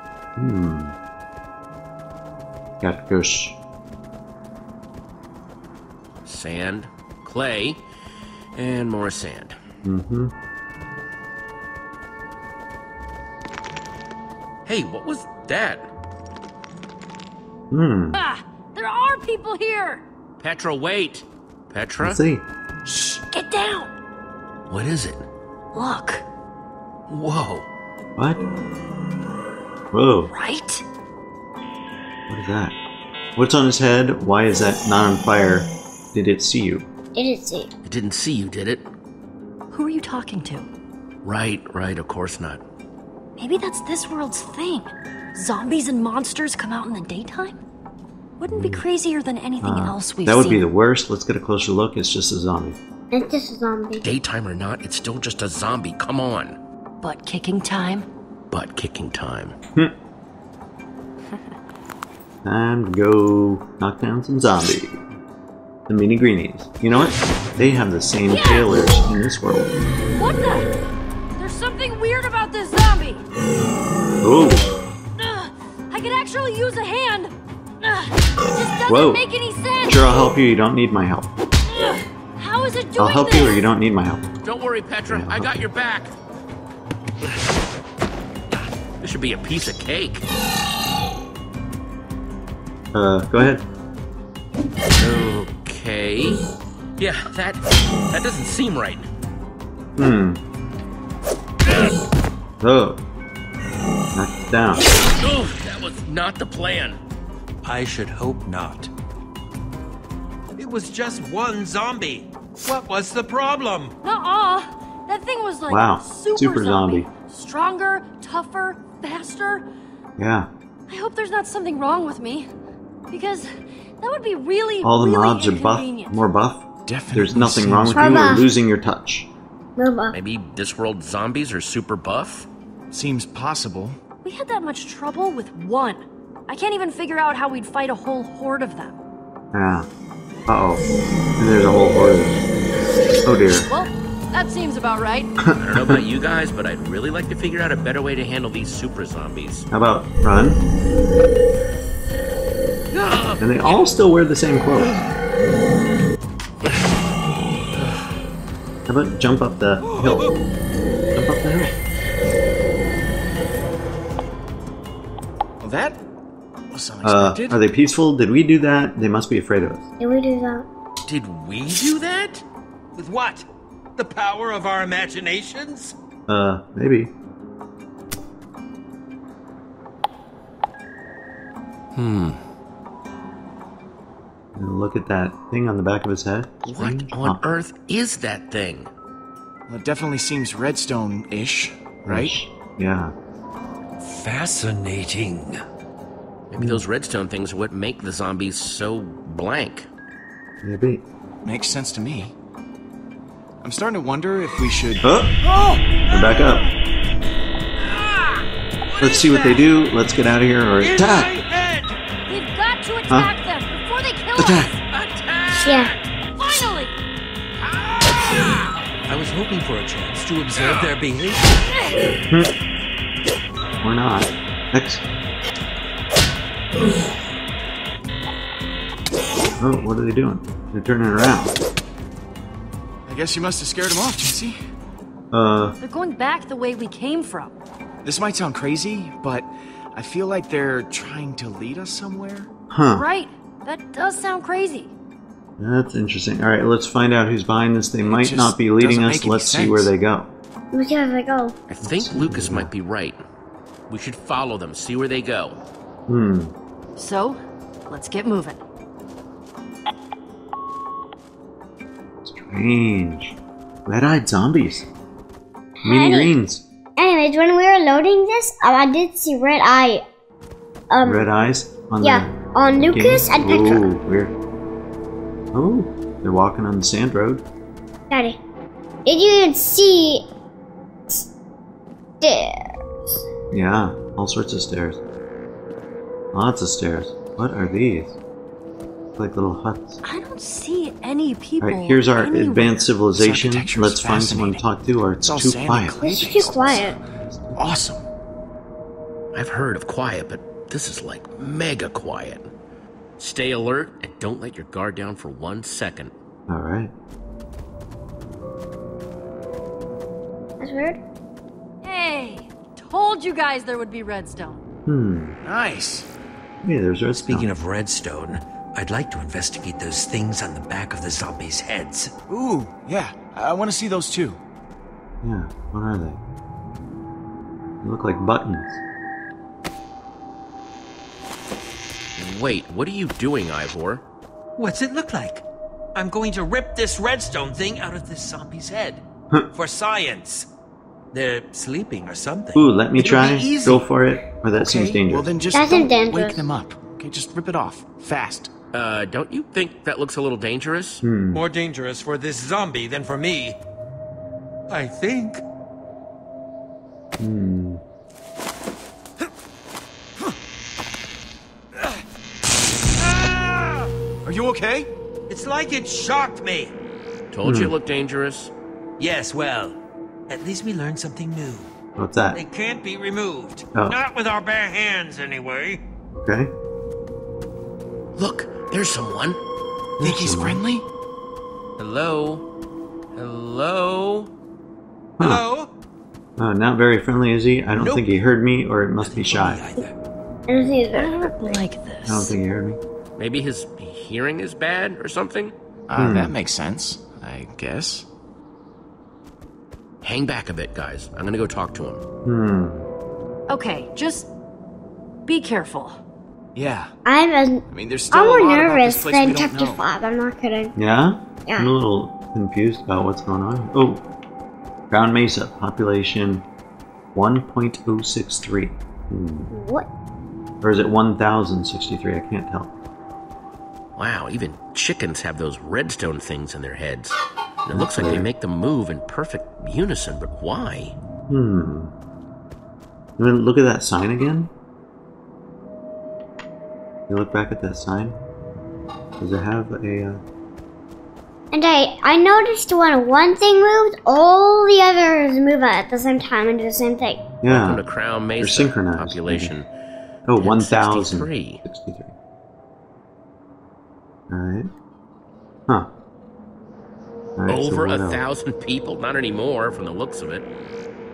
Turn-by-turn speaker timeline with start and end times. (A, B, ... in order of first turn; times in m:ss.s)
0:00.4-0:00.9 A
0:02.8-0:03.6 A
0:06.2-0:07.8 B
0:08.6-0:09.6 B
0:09.8-0:10.3 A
0:14.7-0:15.9 B
0:17.7-0:18.2 A
0:18.1-0:20.0 C
0:20.4-0:22.2 B
0:22.0-0:22.4 A
0:22.8-0:23.9 C
0:24.7-0:25.2 B
0:25.7-0:26.2 C
0:27.1-0:27.7 B
0:29.9-0:30.3 A
0:30.3-0:30.8 C
0:32.3-0:32.8 A
0:33.4-0:36.9 A
0:37.1-0:37.7 D
0:37.8-0:38.9 B
0:39.7-0:40.7 C
0:41.2-0:42.6 B
0:43.4-0:47.6 C
0:48.4-0:50.7 C
0:48.5-0:48.8 A
0:49.6-0:52.8 A
0:53.1-0:54.1 D
0:54.0-0:56.6 B
0:57.0-0:58.1 C
0:58.5-0:59.6 B
1:02.4-1:05.0 A
1:05.9-1:09.8 A
1:08.3-1:08.8 C
1:10.2-1:10.8 C
1:11.4-1:13.2 C
1:14.2-1:14.7 A
1:15.2-1:20.1 C
1:18.9-1:19.2 A
1:19.9-1:21.3 A
1:21.7-1:23.6 C
1:23.0-1:24.2 A
1:24.4-1:26.1 B
1:25.1-1:25.5 A
1:29.0-1:30.2 B
1:32.9-1:33.6 A
1:35.0-1:36.4 B
1:37.0-1:39.1 B
1:40.0-1:40.4 A
1:42.6-1:43.0 A
1:44.2-1:44.8 A
1:45.2-1:47.0 B
1:47.6-1:48.9 E
1:50.6-1:53.9 E
1:54.0-1:59.6 C
1:55.7-1:57.1 A
2:00.2-2:00.5 A
2:00.9-2:02.5 C
2:03.1-2:06.2 C
2:04.8-2:09.3 A
2:06.9-2:08.4 F
2:07.9-2:08.5 D
2:09.8-2:10.2 D
2:10.1-2:12.5 B
2:12.9-2:14.0 F
2:14.2-2:19.0 C
2:19.5-2:19.9 A
2:20.5-2:20.8 A
2:21.4-2:22.4 A
2:23.2-2:23.7 A
2:23.5-2:25.3 C
2:25.4-2:26.0 A
2:25.6-2:29.7 B
2:29.7-2:30.6 A
2:32.9-2:33.8 B
2:33.4-2:35.0 A
2:38.9-2:40.3 A
2:41.2-2:41.7 A
2:45.6-2:46.0 F
2:46.7-2:47.6 F
2:47.0-2:49.8 A
2:50.0-2:50.7 D
2:51.1-2:52.4 E
2:51.1-2:52.4 B
2:53.0-2:53.5 E
2:54.0-2:56.0 E
2:56.3-2:57.1 A
3:02.0-3:02.4 B
3:04.5-3:07.4 A
3:06.6-3:08.9 B
3:09.7-3:12.4 F
3:12.0-3:13.1 A
3:14.0-3:15.6 E
3:16.5-3:19.9 B
3:16.6-3:16.8 A
3:20.6-3:21.0 A
3:21.4-3:22.4 F
3:23.6-3:25.1 F
3:25.0-3:25.4 A
3:25.5-3:26.6 E
3:26.0-3:26.6 A
3:27.8-3:29.6 E
3:29.0-3:31.3 A
3:30.8-3:32.0 E
3:32.3-3:34.8 C
3:34.4-3:34.7 A
3:34.9-3:36.1 B
3:35.6-3:35.9 D
3:36.4-3:36.9 C
3:37.7-3:38.5 E
3:39.0-3:41.4 E
3:40.5-3:40.9 B
3:41.6-3:42.1 C
3:43.8-3:45.0 A
3:49.6-3:51.5 A
3:53.1-3:54.6 F
3:55.3-3:55.8 A
3:55.8-3:57.5 C
3:58.0-4:02.5 F
4:02.7-4:03.0 A
4:02.9-4:04.9 C
4:05.6-4:10.3 A
4:08.0-4:09.9 F
4:10.7-4:11.5 D
4:11.7-4:13.2 B
4:11.8-4:12.7 A
4:13.9-4:15.6 B
4:16.1-4:16.5 A
4:17.0-4:18.6 C
4:22.2-4:23.4 A
4:23.9-4:24.9 A
4:25.8-4:26.4 D
4:25.8-4:26.6 A
4:27.0-4:30.0 D
4:30.9-4:31.3 D
4:31.0-4:34.4 A
4:32.0-4:33.9 D
4:35.5-4:37.4 A
4:38.1-4:38.4 D
4:39.0-4:40.2 D
4:42.2-4:43.2 D
4:43.5-4:45.0 A
4:46.3-4:48.2 A
4:49.2-4:50.0 A
4:50.0-4:52.9 C
4:51.6-4:56.0 A
4:53.1-4:54.6 F
4:55.2-4:57.0 F
4:56.0-4:57.0 D
4:57.5-4:58.0 F
4:59.3-5:02.5 B
5:03.2-5:06.1 B
5:06.5-5:06.9 A
5:10.6-5:11.0 D
5:11.8-5:14.6 C
5:14.9-5:15.4 A
5:15.4-5:16.1 F
5:16.6-5:17.5 A
5:17.1-5:22.1 E
5:22.3-5:24.4 F
5:25.2-5:26.2 A
5:27.8-5:28.8 A
5:32.2-5:34.0 B
5:34.6-5:35.4 E
5:36.0-5:39.0 E
5:39.5-5:40.5 E
5:41.1-5:43.9 E
5:42.5-5:45.3 A
5:44.5-5:45.0 E
5:45.1-5:48.5 F
5:45.5-5:46.5 D
5:48.7-5:51.0 B
5:51.0-5:51.4 A
5:51.3-5:53.6 E
5:54.7-5:55.4 E
5:57.2-5:57.8 A
6:03.1-6:03.9 E
6:04.2-6:04.9 F
6:05.3-6:06.7 E
6:07.3-6:08.5 B
6:07.4-6:07.7 A
6:09.0-6:09.8 E
6:10.3-6:11.7 E
6:12.0-6:12.4 A
6:12.3-6:15.8 E
6:16.2-6:16.5 A
6:18.2-6:19.4 B
6:20.0-6:20.9 F
6:20.0-6:20.6 A
6:21.8-6:22.4 B
6:23.2-6:24.3 B
6:25.2-6:25.4 A
6:25.2-6:25.7 E
6:26.4-6:29.6 A
6:27.7-6:28.0 E
6:29.0-6:30.0 E
6:30.5-6:31.6 D
6:30.9-6:32.4 C
6:32.0-6:32.8 A
6:33.2-6:35.5 B
6:35.9-6:38.1 F
6:36.0-6:36.4 A
6:40.0-6:42.0 B
6:42.2-6:42.9 A
6:43.5-6:44.3 C
6:45.2-6:46.0 C
6:46.5-6:46.9 F
6:47.0-6:50.7 D
6:47.7-6:49.8 F
6:50.8-6:54.0 A
6:51.5-6:51.8 D
6:54.9-6:56.5 A
6:57.1-6:59.5 A
6:59.5-6:59.9 D
7:00.6-7:02.7 A
7:04.0-7:11.0 B
7:07.7-7:08.3 A
7:11.3-7:11.9 A
7:13.2-7:14.5 A
7:17.1-7:18.2 A
7:19.2-7:20.2 A
7:21.5-7:27.3 D
7:27.4-7:27.8 A
7:27.5-7:29.7 B
7:28.4-7:29.5 A
7:30.3-7:32.1 A
7:30.4-7:31.6 B
7:34.3-7:34.7 A
7:37.4-7:38.2 A
7:37.5-7:40.5 B